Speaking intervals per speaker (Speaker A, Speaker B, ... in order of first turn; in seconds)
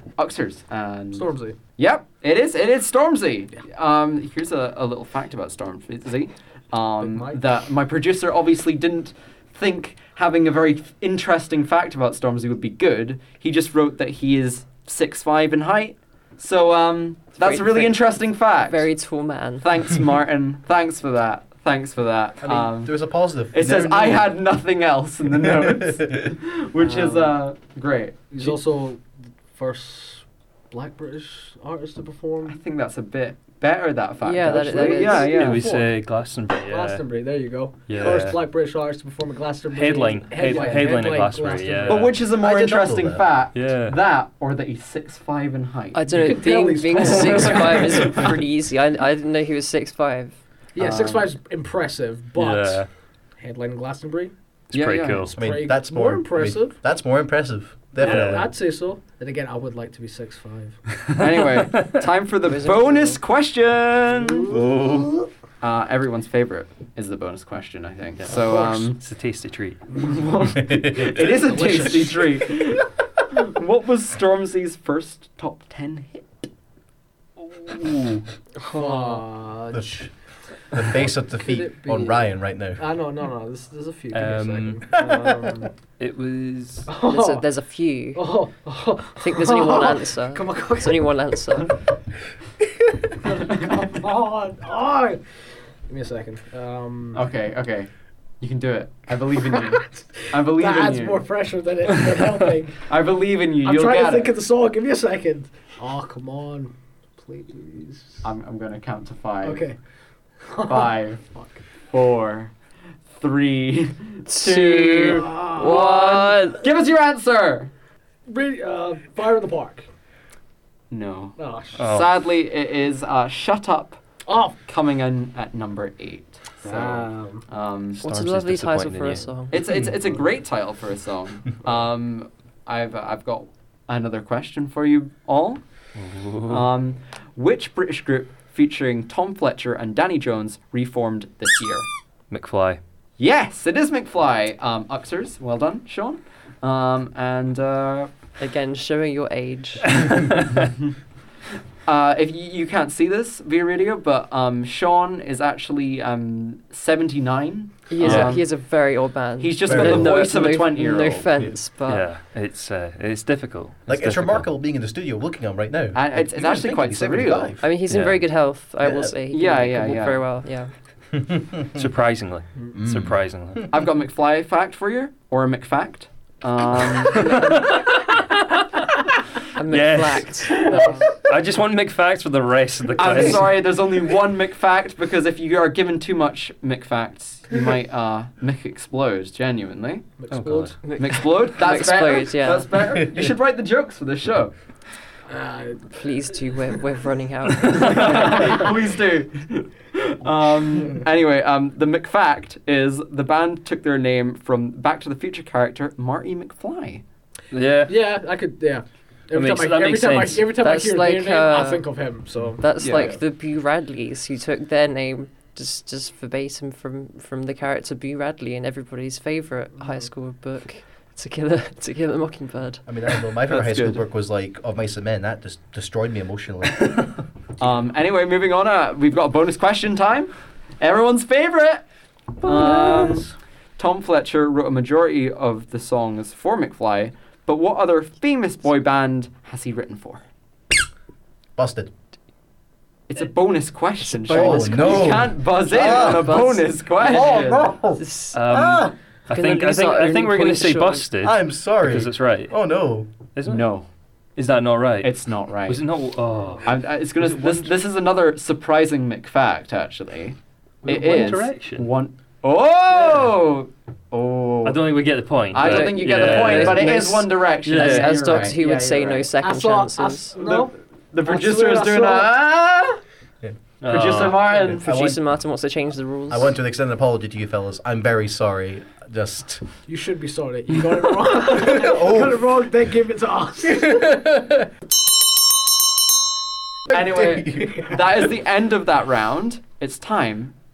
Speaker A: 0.2-18.9, 19.6-23.0, 23.5-28.6, 32.5-35.7, 40.5-40.8, 41.9-46.3, 47.0-48.3, 50.8-51.3, 54.7-55.3, 61.2-64.5, 65.6-69.0, 70.0-76.5, 97.1-97.9, 98.4-101.3, 102.9-104.3, 108.2-109.7, 110.7-111.2, 111.9-112.5, 113.2-117.7, 120.9-124.0, 124.7-128.0, 129.5-135.6, 136.5-141.9, 143.2-148.1, 151.9-158.5, 159.4-161.3, 165.9-167.6, 169.3-170.2, 173.7-177.4, 183.0-190.2, 190.9-194.5, 197.8-207.0, 212.8-213.2, 223.5-224.0, 227.6-231.8, 232.4-240.2, 243.1-247.7, 253.5-253.9, 255.0-255.8, 256.6-264.8, 265.5-269.0, 270.4-273.0, 273.9-274.9, 286.9-290.5
Speaker B: 1.1-1.6, 7.0-7.4, 26.8-27.3, 28.3-32.6, 34.5-42.3, 46.1-48.3, 50.8-52.9, 53.4-54.3, 55.3-56.8, 58.0-60.8, 70.0-70.2, 71.5-72.1, 78.7-80.1, 80.8-85.7, 86.9-87.5, 88.2-91.1, 93.2-95.2, 95.9-97.2, 99.5-102.9, 103.6-108.2, 109.4-109.8, 110.5-111.6, 115.0-116.1, 118.3-119.9, 121.4-121.8, 124.3-124.6, 126.7-127.4, 180.6-181.2, 190.2-190.8, 195.3-195.9, 207.9-213.2, 262.9-263.3, 268.6-270.7, 271.2-272.3, 279.9-284.1
Speaker C: 17.4-18.0, 18.6-19.7, 34.2-35.4, 45.9-50.4, 62.4-63.2, 87.0-88.3, 89.2-91.7, 114.3-116.6, 128.0-129.6, 148.4-150.1, 157.9-162.1, 167.6-170.7, 179.6-180.6, 190.8-192.7, 195.9-198.7, 210.6-211.9, 212.6-222.8, 232.4-233.2, 244.3-248.7, 249.3-251.1, 265.6-270.4, 274.8-276.6
Speaker D: 22.4-24.4, 25.3-26.4, 42.4-43.3, 55.4-58.5, 64.5-65.2, 70.6-72.1, 79.7-80.1, 80.7-82.8, 85.0-85.7, 159.7-160.3, 163.9-167.7, 168.8-169.1, 171.2-171.8, 172.7-173.2, 193.0-193.3, 222.9-227.0, 241.6-241.9, 244.3-246.5, 247.0-248.9, 251.2-253.1, 274.8-275.2, 276.3-279.6, 281.5-282.6, 283.8-284.6, 286.9-288.3
Speaker E: 35.3-37.0, 37.9-38.5, 39.7-42.2, 43.5-44.0, 52.4-52.9, 54.7-55.4, 58.0-58.5, 61.2-61.9, 68.2-69.8, 77.4-78.2, 84.1-84.9, 86.0-86.9, 121.8-122.1, 127.9-129.5, 136.0-136.7, 142.3-142.8, 150.0-150.4, 158.0-158.4, 161.9-164.5, 167.9-168.3, 171.7-173.7, 177.1-179.0, 179.7-183.6, 190.3-190.8, 197.6-198.3, 207.5-208.0, 209.3-210.5, 248.3-252.5, 253.4-253.7, 254.4-255.2, 255.7-256.7, 257.2-257.7, 260.9-261.9, 264.6-267.1, 267.6-268.5, 273.8-274.7